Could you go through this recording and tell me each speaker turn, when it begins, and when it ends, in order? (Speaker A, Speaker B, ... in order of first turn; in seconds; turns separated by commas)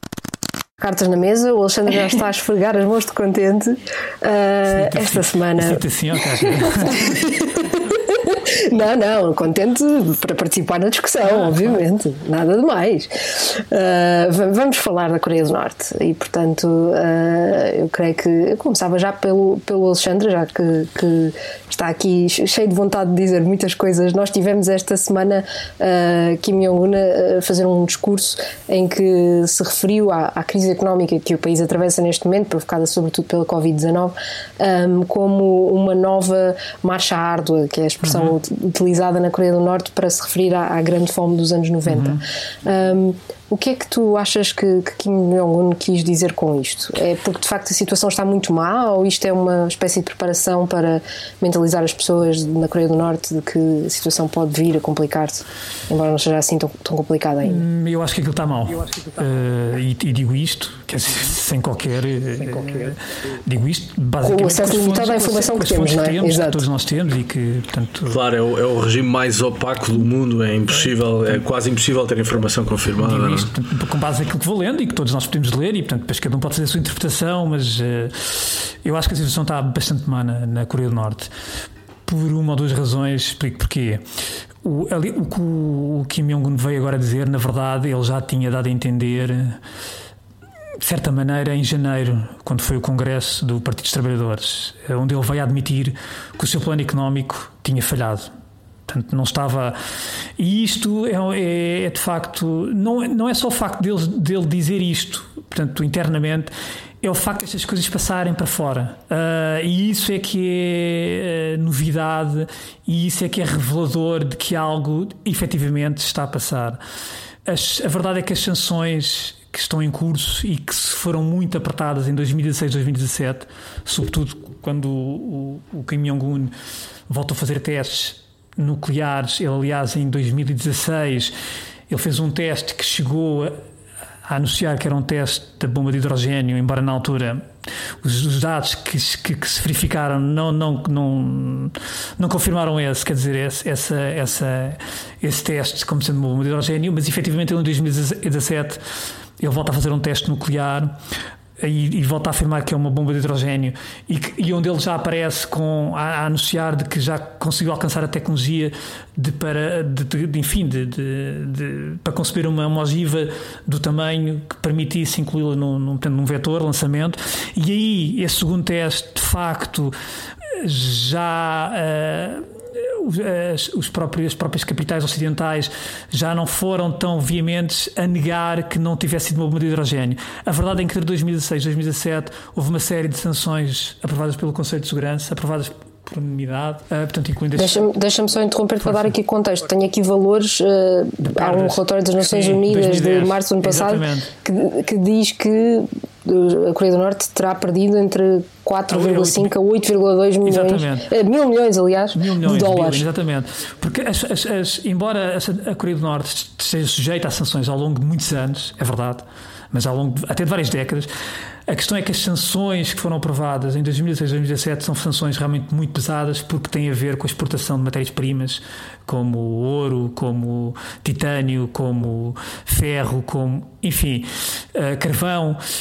Speaker A: 0.8-5.8, Speaker B: 4.7-7.4, Speaker A: 6.6-57.6, Speaker B: 11.4-11.7, Speaker B: 38.0-38.3, Speaker B: 41.9-42.2, Speaker B: 57.4-68.2, Speaker A: 64.2-66.7, Speaker C: 68.1-73.5, Speaker B: 73.0-81.3, Speaker B: 82.0-84.0, Speaker B: 84.6-89.6, Speaker B: 90.8-98.3, Speaker B: 98.9-99.8, Speaker B: 100.4-116.8, Speaker B: 117.5-126.5, Speaker B: 127.1-131.3, Speaker B: 131.9-133.6, Speaker B: 134.3-137.5, Speaker B: 138.0-148.8, Speaker B: 149.4-151.0, Speaker B: 151.6-169.9, Speaker B: 170.5-187.9, Speaker A: 187.6-203.1, Speaker B: 188.8-189.1, Speaker B: 191.2-194.3, Speaker B: 198.9-199.5, Speaker B: 200.4-201.1, Speaker B: 202.2-211.1, Speaker B: 211.7-225.6